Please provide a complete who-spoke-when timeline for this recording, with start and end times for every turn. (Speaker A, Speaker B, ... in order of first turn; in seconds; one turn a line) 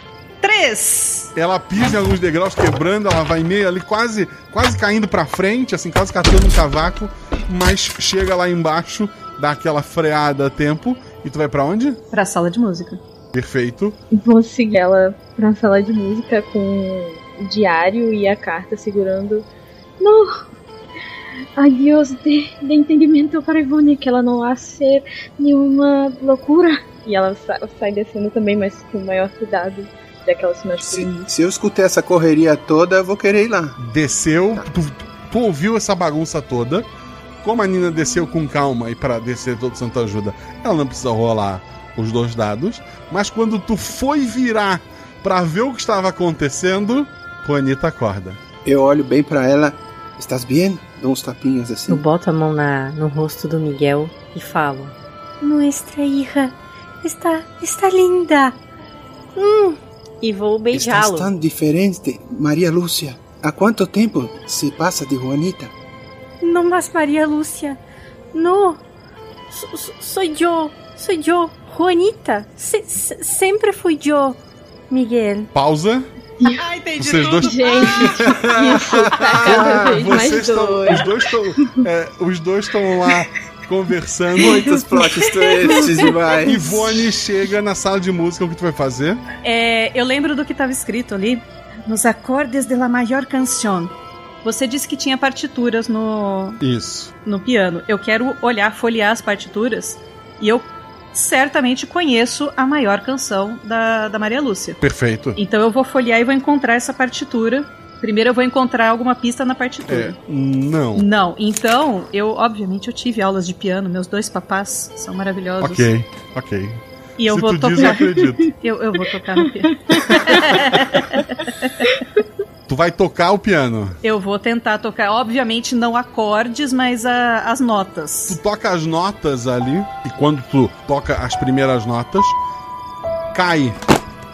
Speaker A: 0.4-1.3
Speaker B: 1.4-12.0
Speaker A: 12.1-13.0
Speaker B: 13.3-14.0
Speaker C: 14.1-19.5
Speaker C: 20.0-20.4
Speaker C: 21.6-31.3
Speaker D: 30.8-33.8
Speaker B: 33.8-36.9
Speaker B: 37.4-48.4
Speaker D: 48.6-52.0
Speaker E: 51.9-58.6
Speaker E: 59.4-61.3
Speaker D: 60.7-65.7
Speaker E: 66.4-67.8
Speaker E: 68.3-68.8
Speaker E: 69.5-74.4
Speaker E: 74.9-75.5
Speaker B: 75.5-76.1
Speaker A: 76.4-78.1
Speaker B: 77.0-78.3
Speaker C: 77.3-81.7
Speaker D: 78.5-79.9
Speaker A: 79.5-79.8
Speaker B: 79.5-84.8
Speaker C: 84.4-86.8
Speaker D: 84.4-86.6
Speaker B: 86.5-89.2
Speaker A: 89.4-93.9
Speaker A: 94.4-96.6
Speaker B: 96.6-97.1
Speaker A: 97.2-104.8
Speaker B: 104.8-105.4
Speaker A: 105.4-110.2
Speaker B: 109.9-111.0
Speaker A: 111.0-115.9
Speaker B: 115.6-118.5
Speaker A: 117.2-121.9
Speaker C: 119.7-120.0
Speaker B: 120.1-120.5
Speaker B: 122.7-124.0
Speaker A: 124.0-128.4
Speaker B: 128.3-132.4
Speaker B: 133.3-133.8